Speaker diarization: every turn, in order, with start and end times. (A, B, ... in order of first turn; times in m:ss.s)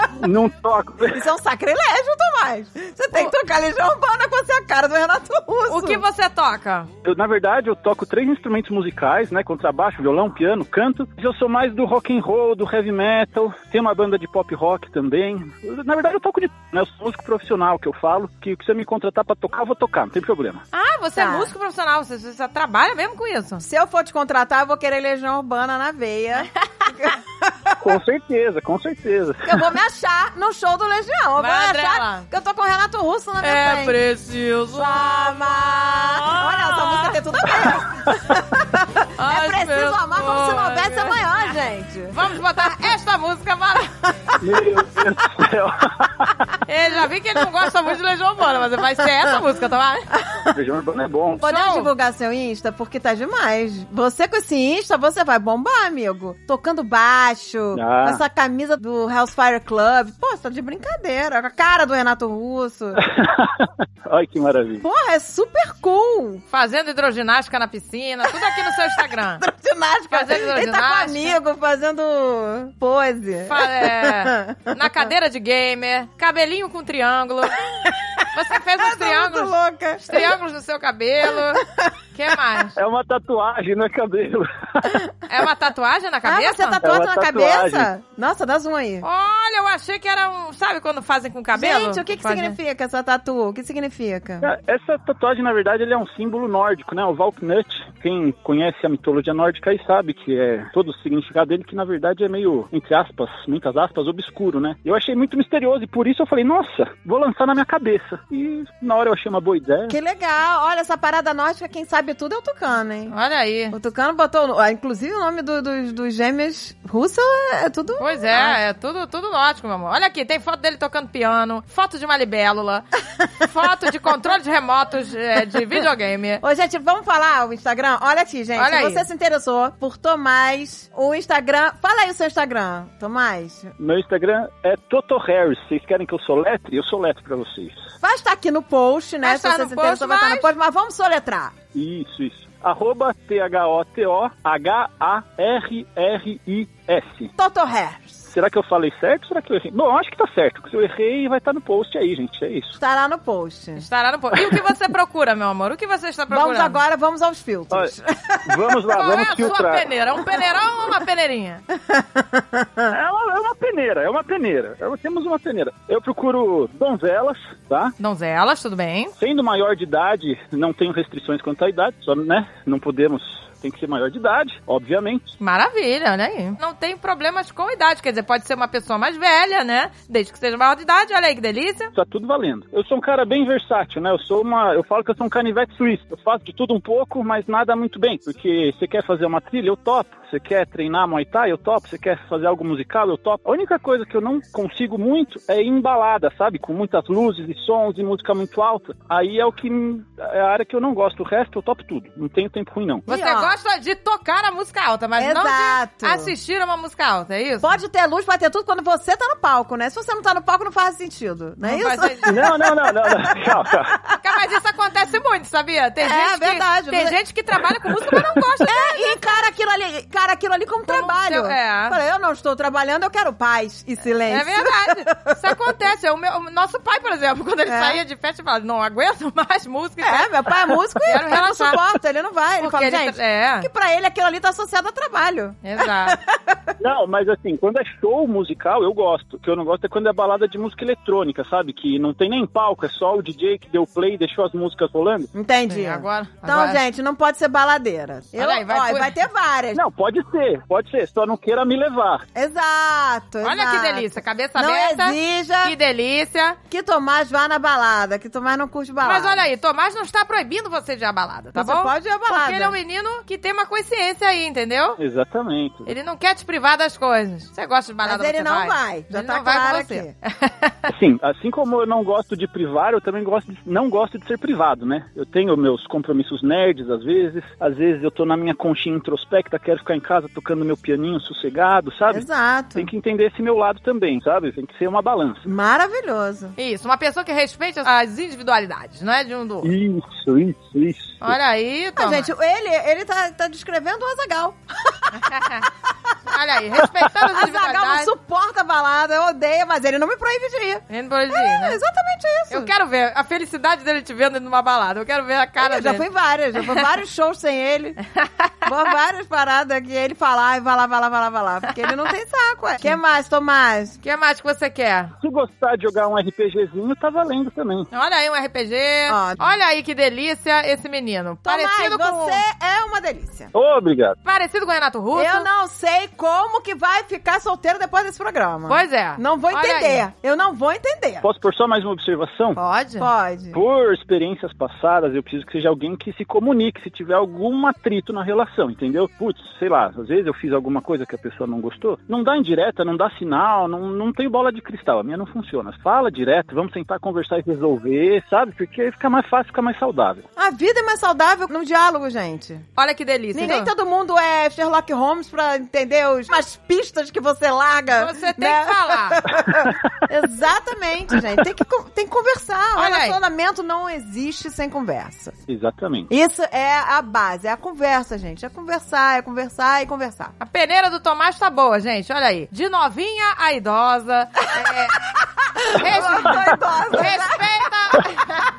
0:00.2-0:01.2 A
0:01.1-0:06.0 B
0:05.7-0:06.9 C
0:07.0-0:20.7 A
0:20.7-0:23.6 C
0:21.2-0:21.5 B
0:23.6-0:27.9 B
0:27.8-0:29.6 A
0:29.4-0:34.0 B
0:31.4-0:32.3 C
0:33.4-0:37.2 C
0:34.7-0:42.2 B
0:39.2-0:41.3 C
0:42.1-0:43.9 C
0:44.4-0:46.3 A
0:46.7-0:50.1 C
0:50.5-0:51.4 A
0:51.4-1:03.0 B
0:51.4-0:51.9 C
0:57.7-0:58.2 A
1:03.0-1:04.8 A
1:04.8-1:06.4 B
1:06.5-1:09.4 C
1:09.4-1:14.6 B
1:10.1-1:11.3 C
1:13.5-1:17.6 C
1:17.8-1:18.2 B
1:18.3-1:21.6 C
1:18.8-1:20.3 B
1:22.1-1:22.7 C
1:22.8-1:25.0 A
1:25.3-1:26.8 C
1:26.2-1:29.0 B
1:26.8-1:27.9 A
1:29.0-1:32.6 C
1:31.5-1:34.5 B
1:34.4-1:50.0 A
1:49.9-1:53.1 B
1:53.1-1:53.7 C
1:53.7-1:58.6 B
1:58.0-2:02.8 C
2:03.4-2:06.4 C
2:06.4-2:13.7 B
2:08.6-2:09.0 C
2:13.8-2:17.8 A
2:18.0-2:21.6 B
2:19.2-2:20.5 C
2:21.7-2:27.3 A
2:27.4-2:28.2 B
2:28.3-2:32.8 A
2:32.8-2:33.8 B
2:33.8-2:36.8 C
2:36.3-2:38.8 B
2:38.4-2:39.9 A
2:38.9-2:41.6 C
2:41.9-2:42.9 B
2:42.9-2:47.9 A
2:48.0-2:49.1 C
2:49.2-2:55.3 A
2:55.4-3:01.9 C
3:01.9-3:23.0 A
3:23.1-3:27.7 C
3:23.1-3:23.6 B
3:25.2-3:26.3 B
3:27.6-3:33.7 B
3:31.6-3:32.4 C
3:32.3-3:33.9 A
3:34.2-3:39.2 C
3:36.0-3:37.2 B
3:38.7-3:45.4 B
3:40.9-3:42.0 C
3:44.3-3:50.3 C
3:47.7-3:48.0 B
3:50.0-3:56.6 B
3:51.0-3:51.8 C
3:52.6-3:53.7 C
3:55.6-3:56.2 C
3:56.8-4:05.3 A
4:05.3-4:09.8 B
4:05.7-4:06.8 C
4:08.4-4:09.1 C
4:09.7-4:12.3 A
4:12.3-4:15.7 B
4:13.4-4:16.6 C
4:16.7-4:19.4 B
4:19.0-4:25.0 C
4:21.6-4:22.8 B
4:25.0-4:25.9 A
4:25.9-4:30.7 C
4:28.0-4:30.1 B
4:30.9-4:45.4 A
4:42.1-4:42.9 B
4:45.4-4:46.6 B
4:46.6-4:49.7 C
4:49.6-4:51.3 A
4:51.2-4:52.3 C
4:52.0-4:55.1 B
4:55.2-4:55.6 C
4:56.3-4:58.1 C
4:57.3-5:02.7 B
5:00.9-5:01.8 C
5:02.5-5:06.0 C
5:05.6-5:08.0 B
5:08.1-5:08.5 C
5:08.7-5:14.0 B
5:14.0-5:15.1 C
5:15.2-5:17.9 A
5:17.9-5:22.4 C
5:19.1-5:19.4 B
5:21.4-5:23.5 B
5:23.5-5:24.2 A
5:24.2-5:25.4 C
5:25.1-5:31.3 B
5:28.7-5:30.0 C
5:31.2-5:32.6 A
5:32.6-5:33.1 C
5:33.0-5:33.6 B
5:33.5-5:50.2 A
5:50.4-5:52.7 B
5:52.8-5:53.7 C
5:53.3-6:05.3 B
5:57.9-5:59.2 C
6:02.8-6:03.2 C
6:05.5-6:06.1 A
6:06.1-6:10.3 B
6:10.4-6:15.0 C
6:15.1-6:17.5 B
6:15.8-6:18.2 C